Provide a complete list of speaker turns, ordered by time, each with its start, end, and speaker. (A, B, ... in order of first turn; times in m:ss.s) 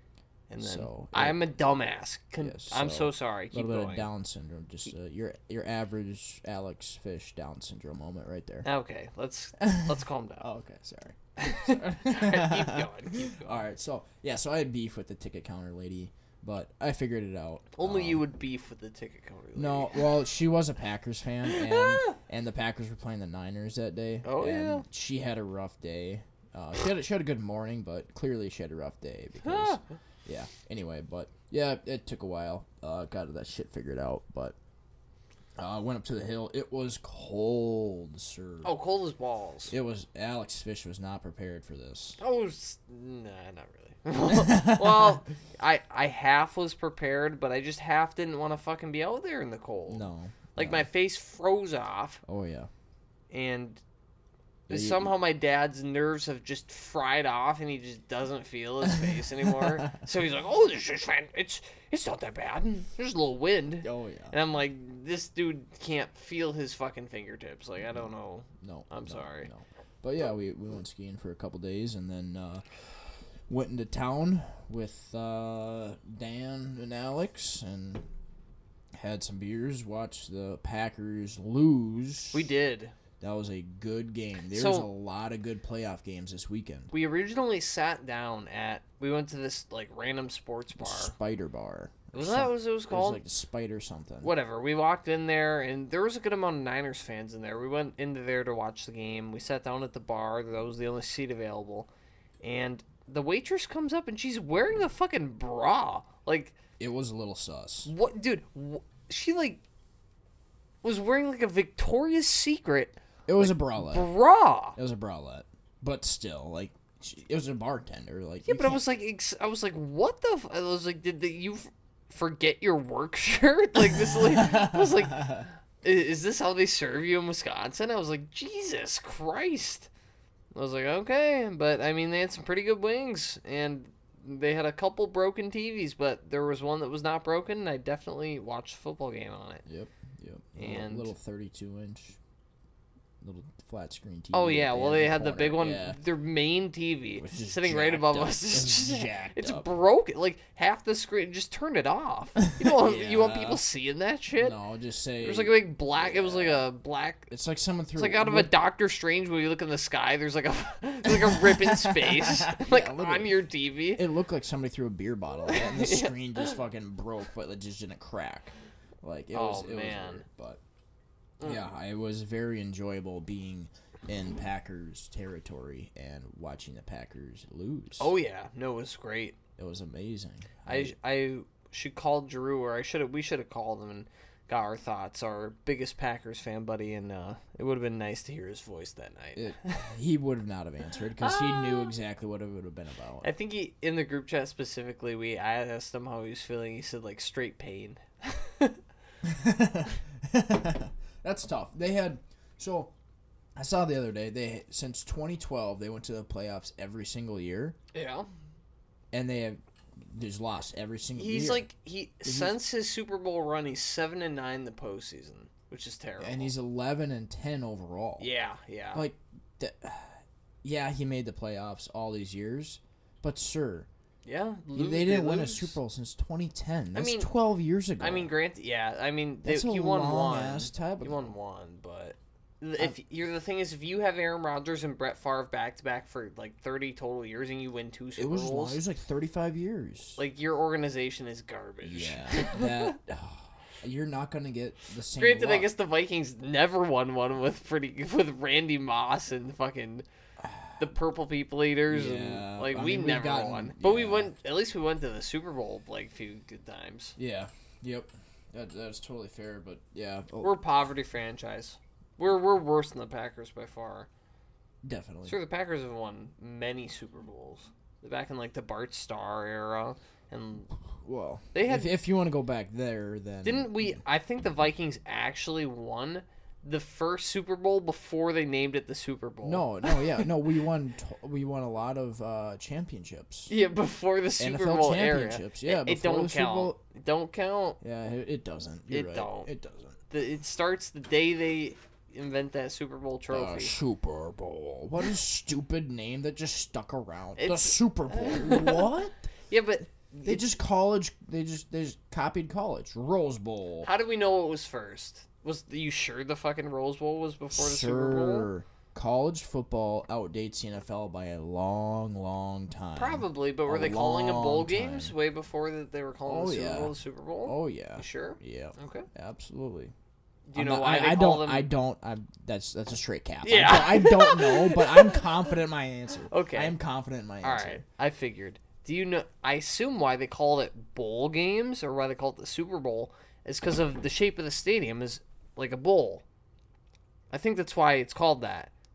0:00.5-0:04.1 A
0:00.6-0:01.4 B
0:02.4-0:08.7 B
0:08.6-0:10.5 A
0:09.6-0:18.2 B
0:11.4-0:13.7 A
0:17.8-0:20.1 A
0:19.6-0:34.6 B
0:21.6-0:22.2 A
0:24.2-0:24.9 A
0:29.4-0:29.8 A
0:35.6-0:38.7 B
0:38.6-0:39.7 A
0:39.7-0:42.2 B
0:42.2-0:52.2 A
0:44.2-0:45.2 B
0:49.9-0:50.9 B
0:52.3-0:52.7 B
0:53.3-0:53.8 A
0:54.7-1:09.5 A
0:54.7-0:55.2 B
0:59.0-1:00.0 B
1:03.8-1:04.4 B
1:08.6-1:12.6 B
1:13.5-1:18.0 B
1:19.0-1:22.5 B
1:22.3-1:23.0 A
1:23.2-1:26.9 B
1:24.5-1:24.9 A
1:26.9-1:31.1 A
1:30.8-1:34.3 B
1:32.1-1:33.2 A
1:34.2-1:41.9 A
1:42.4-1:46.6 A
1:46.8-1:47.9 B
1:47.8-1:49.6 A
1:50.8-1:54.8 A
1:53.3-1:54.1 B
1:54.8-1:58.8 B
1:58.5-2:09.9 A
2:03.9-2:05.5 B
2:10.6-2:19.6 A
2:19.7-2:22.2 B
2:20.6-2:21.1 A
2:23.2-2:26.0 B
2:24.3-2:34.6 A
2:27.1-2:29.7 B
2:32.5-2:33.6 B
2:34.4-2:36.7 B
2:35.2-2:37.3 A
2:37.3-2:38.5 B
2:38.0-2:44.0 A
2:41.0-2:43.4 B
2:44.0-2:50.6 B
2:45.5-2:46.1 A
2:49.3-2:50.2 A
2:51.4-2:58.1 B
2:58.0-2:59.4 A
2:59.6-3:00.9 B
3:00.7-3:09.9 A
3:09.4-3:13.3 B
3:11.2-3:11.9 A
3:13.2-3:18.8 A
3:19.2-3:22.9 B
3:23.6-3:27.8 B
3:27.9-3:28.3 A
3:29.1-3:31.7 B
3:31.2-3:36.5 A
3:32.2-3:32.6 B
3:36.2-3:38.3 B
3:38.2-3:39.1 A
3:38.9-3:43.9 B
3:44.2-3:45.8 A
3:44.7-3:48.3 B
3:47.0-3:47.3 A
3:48.0-3:58.8 A
3:49.4-3:51.3 B
3:58.2-4:00.2 B
4:00.2-4:03.0 A
4:01.8-4:05.7 B
4:05.2-4:10.1 A
4:10.4-4:10.9 B
4:10.8-4:17.2 A
4:11.9-4:14.3 B
4:17.2-4:20.6 B
4:20.4-4:24.1 A
4:24.8-4:25.4 B
4:25.3-4:30.7 A
4:31.0-4:34.0 B
4:31.5-4:31.9 A
4:33.4-4:40.3 A
4:39.4-4:43.5 B
4:43.5-4:47.8 A
4:44.4-4:46.8 B
4:47.8-4:50.0 B
4:48.9-4:49.5 A
4:50.1-4:53.7 A
4:53.3-4:59.2 B
4:57.4-4:58.9 A
4:59.5-5:00.5 A
5:00.2-5:03.9 B
5:03.8-5:08.5 A
5:07.5-5:15.1 B
5:13.0-5:19.1 A
5:16.3-5:19.9 B
5:20.5-5:21.7 A
5:20.6-5:27.8 B
5:23.4-5:25.3 A
5:26.3-5:26.8 A
5:27.4-5:36.2 A
5:37.3-5:38.7 A